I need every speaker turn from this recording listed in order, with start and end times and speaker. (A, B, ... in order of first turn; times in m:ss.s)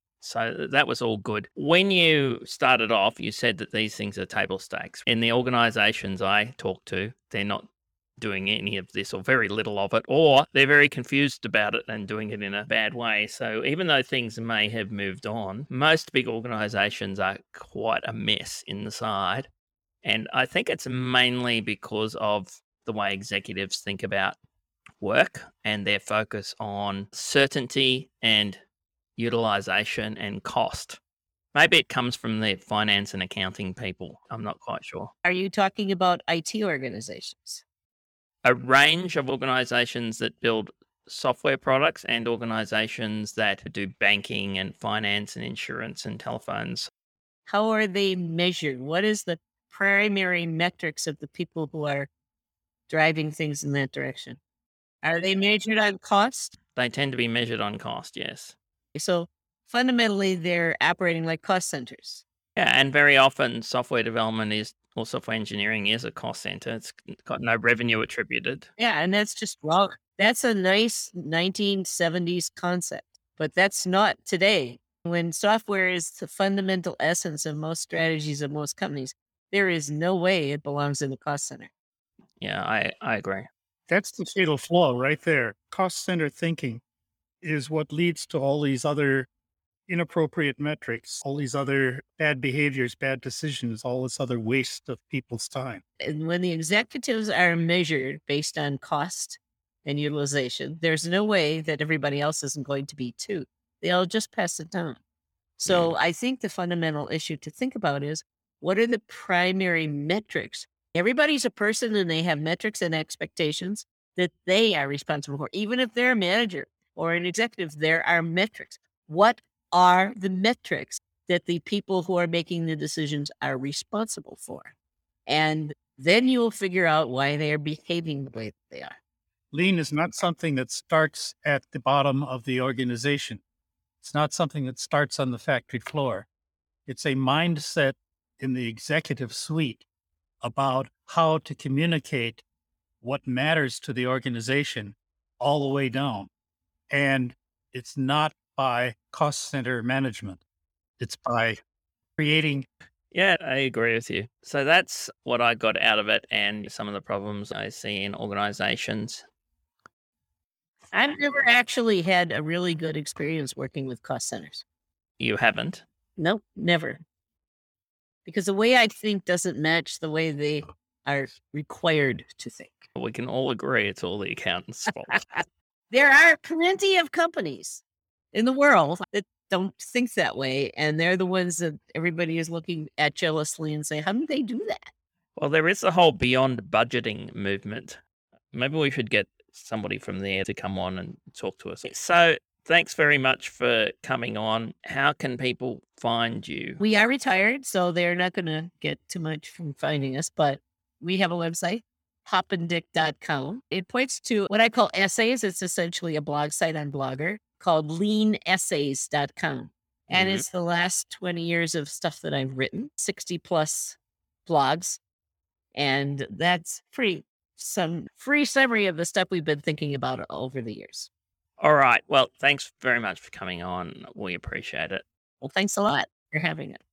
0:00.2-0:07.7 A
0:08.2-0:19.5 A
0:20.0-0:24.4 A
0:25.0-0:28.6 A
0:29.2-0:31.0 A
0:31.5-0:35.1 A
0:35.2-0:37.6 B
0:38.4-0:46.9 A
0:47.5-0:52.1 B
0:52.9-0:54.4 B
0:55.0-0:56.5 B
0:56.8-0:58.6 A
0:59.0-1:02.2 B
1:02.6-1:08.7 A
1:08.8-1:21.7 B
1:22.4-1:23.5 A
1:23.9-1:26.8 C
1:27.4-1:29.3 C
1:29.9-1:35.8 C
1:36.0-1:45.0 B
1:45.6-2:04.7 B
1:45.7-1:45.9 A
2:05.3-2:09.0 B
2:09.5-2:13.4 C
2:14.0-2:16.3 C
2:16.9-2:19.8 C
2:20.4-2:22.4 C
2:23.0-2:26.3 C
2:26.9-2:30.4 C
2:31.0-2:31.6 C
2:32.2-2:32.7 C
2:33.1-2:39.2 A
2:40.9-2:44.6 B
2:45.2-2:45.8 A
2:46.2-2:47.0 B
2:48.3-2:52.9 B
2:53.0-2:55.3 A
2:55.1-2:57.8 B
2:58.3-3:04.9 B
3:05.4-3:08.0 A
3:08.5-3:16.8 A
3:16.8-3:35.0 B
3:30.1-3:30.4 A
3:35.8-3:41.1 B
3:41.6-3:45.0 A
3:45.4-3:46.8 B